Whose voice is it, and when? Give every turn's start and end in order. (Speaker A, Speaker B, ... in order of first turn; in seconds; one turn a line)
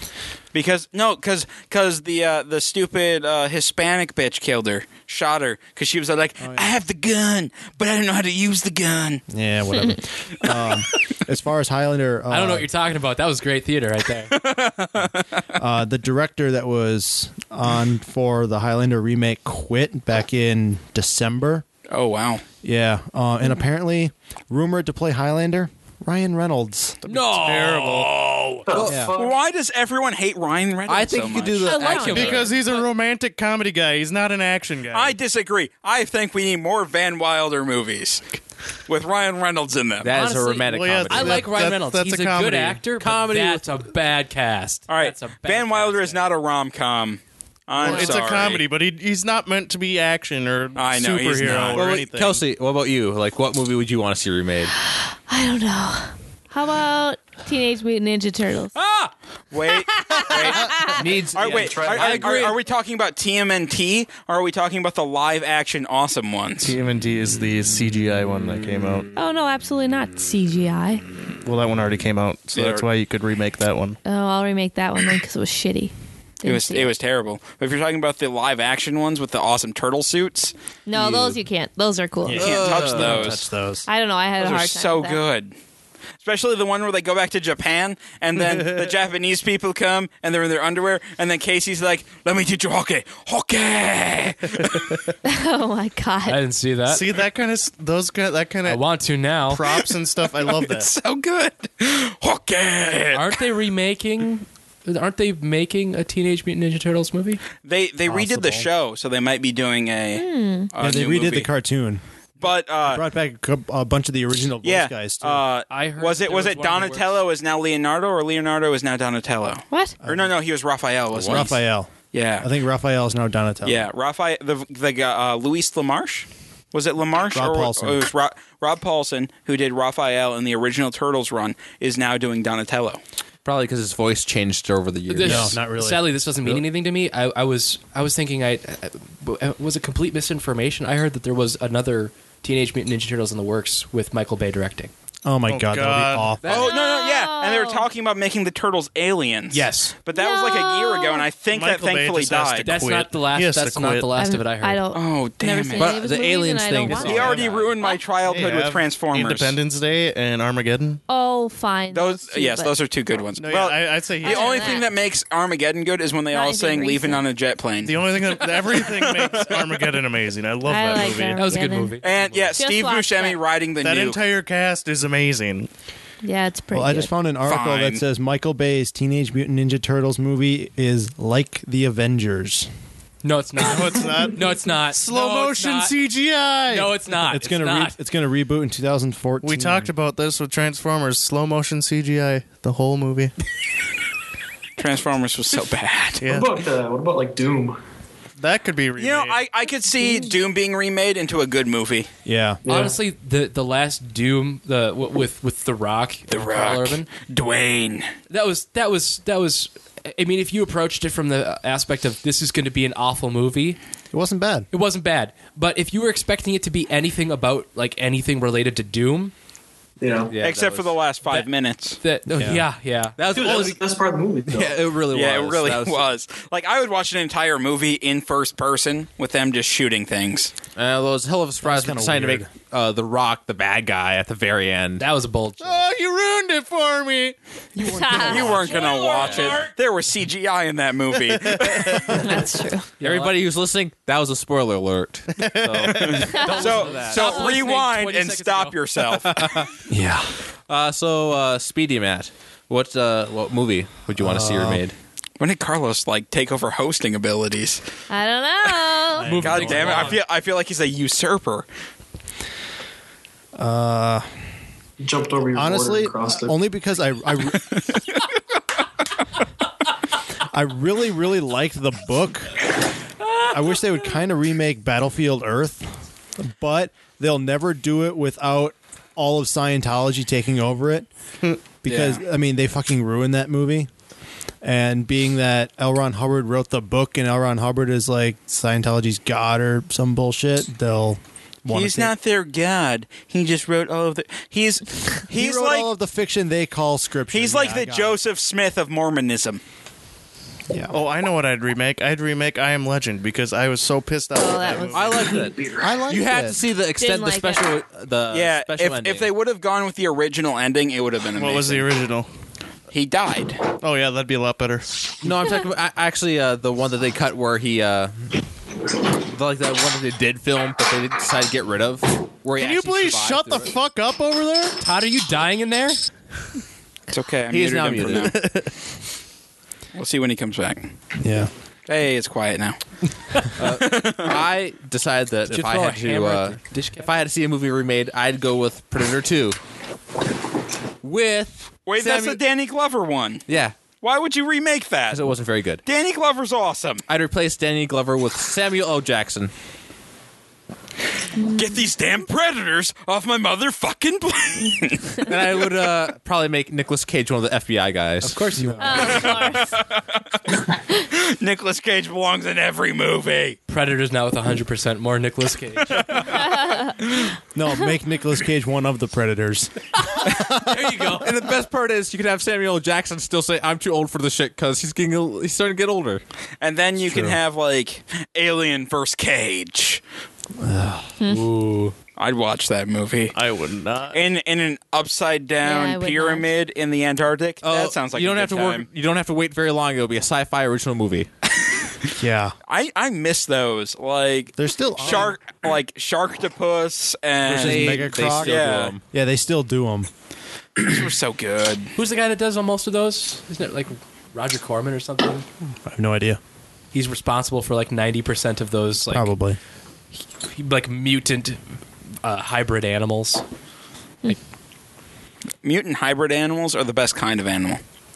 Speaker A: 0.5-9.2
Speaker B: 6.4-6.7
Speaker B: 9.3-12.7
Speaker C: 12.3-14.4
Speaker A: 14.3-15.4
Speaker B: 15.6-21.6
Speaker A: 21.9-22.4
Speaker B: 22.6-27.0
Speaker D: 27.1-28.2
Speaker C: 27.1-28.6
Speaker E: 28.7-29.4
Speaker F: 28.7-29.1
Speaker B: 28.8-29.1
Speaker A: 29.1-31.9
Speaker F: 30.9-32.5
Speaker G: 31.6-32.5
Speaker C: 31.8-32.9
Speaker D: 32.0-35.2
Speaker A: 34.9-40.1
Speaker F: 40.0-41.5
Speaker C: 40.0-46.3
Speaker D: 40.6-42.9
Speaker F: 43.0-43.6
Speaker A: 44.9-48.6
Speaker D: 47.8-52.5
Speaker A: 50.7-51.9
Speaker F: 51.5-54.7
Speaker G: 54.9-58.7
Speaker C: 58.8-59.1
Speaker A: 59.5-66.8
Speaker G: 60.2-61.1
Speaker F: 60.8-62.5
Speaker E: 61.4-62.4
Speaker C: 62.1-62.5
Speaker D: 66.6-69.1
Speaker G: 69.1-71.0
Speaker D: 71.4-74.0
Speaker A: 72.5-72.9
Speaker G: 74.0-76.9
Speaker A: 76.4-80.5
Speaker G: 80.9-82.5
Speaker F: 81.0-81.3
Speaker B: 82.2-83.9
Speaker F: 82.3-83.2
Speaker A: 82.3-83.5
Speaker G: 83.9-85.2
Speaker A: 84.4-85.5
Speaker A: 86.2-95.0
Speaker D: 88.4-88.9
Speaker G: 95.2-96.4
Speaker C: 96.3-97.1
Speaker D: 96.9-98.8
Speaker C: 98.7-99.7
Speaker D: 99.5-100.9
Speaker A: 100.4-103.4
Speaker C: 103.1-107.4
Speaker A: 107.6-111.5
Speaker B: 108.1-108.7
Speaker G: 110.2-110.7
Speaker B: 110.8-112.0
Speaker A: 112.4-113.0
Speaker B: 112.8-115.5
Speaker A: 114.6-121.6
Speaker C: 115.7-117.2
Speaker B: 120.0-120.3
Speaker F: 121.1-121.5
Speaker B: 121.2-123.9
Speaker A: 122.1-122.5
Speaker A: 123.6-133.0
Speaker B: 127.3-128.1
Speaker F: 133.4-135.6
Speaker C: 135.1-144.9
Speaker B: 135.2-136.0
Speaker B: 145.2-146.4
Speaker D: 145.5-146.4
Speaker F: 146.4-146.7
Speaker A: 146.4-152.8
Speaker G: 146.5-147.8
Speaker C: 149.5-149.9
Speaker G: 150.1-151.3
Speaker D: 151.5-154.1
Speaker C: 152.6-154.8
Speaker G: 154.2-158.1
Speaker A: 154.9-155.9
Speaker F: 155.8-157.7
Speaker A: 156.9-159.6
Speaker D: 158.2-161.0
Speaker G: 161.1-162.7
Speaker A: 161.9-169.8
Speaker D: 163.4-164.8
Speaker G: 164.2-164.9
Speaker G: 166.3-167.2
Speaker D: 167.8-171.4
Speaker G: 170.7-172.0
Speaker C: 171.4-172.6
Speaker A: 172.0-174.2
Speaker G: 172.6-173.4
Speaker D: 173.8-175.7
Speaker G: 176.2-177.1
Speaker B: 176.7-182.7
Speaker A: 177.4-178.0
Speaker C: 183.2-185.9
Speaker D: 183.6-186.9
Speaker C: 186.7-187.9
Speaker B: 187.2-189.9
Speaker D: 189.4-193.3
Speaker A: 194.8-196.3
Speaker D: 196.2-196.5
Speaker E: 196.2-197.8
Speaker D: 198.4-199.4
Speaker A: 199.0-202.1
Speaker G: 200.0-200.3
Speaker B: 202.2-202.6
Speaker E: 202.6-202.9
Speaker C: 202.7-207.1
Speaker A: 206.3-208.1
Speaker C: 208.3-213.8
Speaker B: 214.1-214.7
Speaker C: 214.7-219.3
Speaker E: 220.0-220.3
Speaker F: 220.3-221.0
Speaker A: 220.4-222.0
Speaker C: 222.0-223.2
Speaker B: 222.4-222.6
Speaker F: 223.2-223.8
Speaker E: 223.3-224.8
Speaker F: 224.5-226.1
Speaker A: 225.1-230.5
Speaker F: 230.8-235.1
Speaker B: 231.6-232.5
Speaker C: 235.0-235.9
Speaker D: 235.6-237.4
Speaker B: 237.8-238.8
Speaker G: 237.8-238.7
Speaker C: 238.1-239.7
Speaker A: 238.2-242.3
Speaker F: 239.2-239.6
Speaker D: 241.3-242.1
Speaker G: 242.1-242.9
Speaker C: 243.0-243.4
Speaker F: 243.0-247.4
Speaker D: 245.3-246.3
Speaker A: 246.0-249.6
Speaker C: 246.2-249.1
Speaker G: 246.3-246.7
Speaker F: 249.2-249.7
Speaker B: 249.9-250.4
Speaker F: 250.7-254.9
Speaker B: 254.2-254.8
Speaker A: 255.4-257.8
Speaker G: 258.1-259.4
Speaker B: 259.2-260.1
Speaker C: 259.2-260.2
Speaker A: 259.4-261.7
Speaker B: 263.6-264.3
Speaker E: 265.0-266.6
Speaker B: 265.5-267.7
Speaker B: 270.4-272.6
Speaker B: 273.4-281.1
Speaker B: 281.8-283.9
Speaker A: 281.9-282.2
Speaker B: 284.6-292.1
Speaker A: 291.7-295.9
Speaker B: 295.3-298.2
Speaker A: 297.3-299.6
Speaker B: 300.7-300.9
Speaker D: 300.9-305.5
Speaker G: 304.3-305.5
Speaker F: 304.9-309.3
Speaker E: 305.4-305.9
Speaker B: 305.7-306.6
Speaker G: 306.9-307.7
Speaker A: 308.3-311.9
Speaker D: 311.3-312.3
Speaker A: 312.9-313.6
Speaker D: 313.8-314.9
Speaker F: 315.2-318.4
Speaker F: 319.3-323.7
Speaker D: 322.6-324.8
Speaker C: 324.8-326.0
Speaker A: 327.1-328.4
Speaker F: 327.5-328.4
Speaker D: 328.1-328.7
Speaker A: 329.9-330.9
Speaker B: 331.2-331.5
Speaker A: 331.9-332.8
Speaker F: 333.6-339.6
Speaker A: 333.6-334.4
Speaker C: 335.5-337.2
Speaker F: 341.0-342.4
Speaker A: 341.9-343.4
Speaker F: 343.5-343.8
Speaker A: 344.0-345.3
Speaker F: 345.1-345.8
Speaker A: 345.8-347.0
Speaker F: 347.1-349.5
Speaker G: 351.4-351.7
Speaker A: 351.5-355.2
Speaker F: 355.2-358.5
Speaker C: 358.2-359.2
Speaker B: 358.6-359.2
Speaker G: 358.8-359.8
Speaker A: 359.0-360.4
Speaker A: 361.1-363.6
Speaker C: 363.7-366.5
Speaker G: 366.3-366.9
Speaker B: 367.5-370.9
Speaker C: 370.0-371.3
Speaker F: 371.1-376.2
Speaker A: 376.6-380.0
Speaker B: 377.0-377.4
Speaker B: 380.6-381.1
Speaker C: 381.3-381.9
Speaker A: 382.2-383.4
Speaker D: 383.3-384.2
Speaker A: 384.1-388.9
Speaker G: 385.6-386.5
Speaker F: 387.6-391.3
Speaker B: 392.2-392.6
Speaker A: 392.7-398.9
Speaker B: 394.6-395.4
Speaker F: 397.4-399.0
Speaker B: 397.4-400.1
Speaker A: 400.8-401.9
Speaker C: 401.9-405.4
Speaker B: 405.8-406.4
Speaker C: 406.9-409.3
Speaker B: 409.1-409.6
Speaker C: 410.5-411.6
Speaker C: 412.2-413.4
Speaker A: 415.6-417.8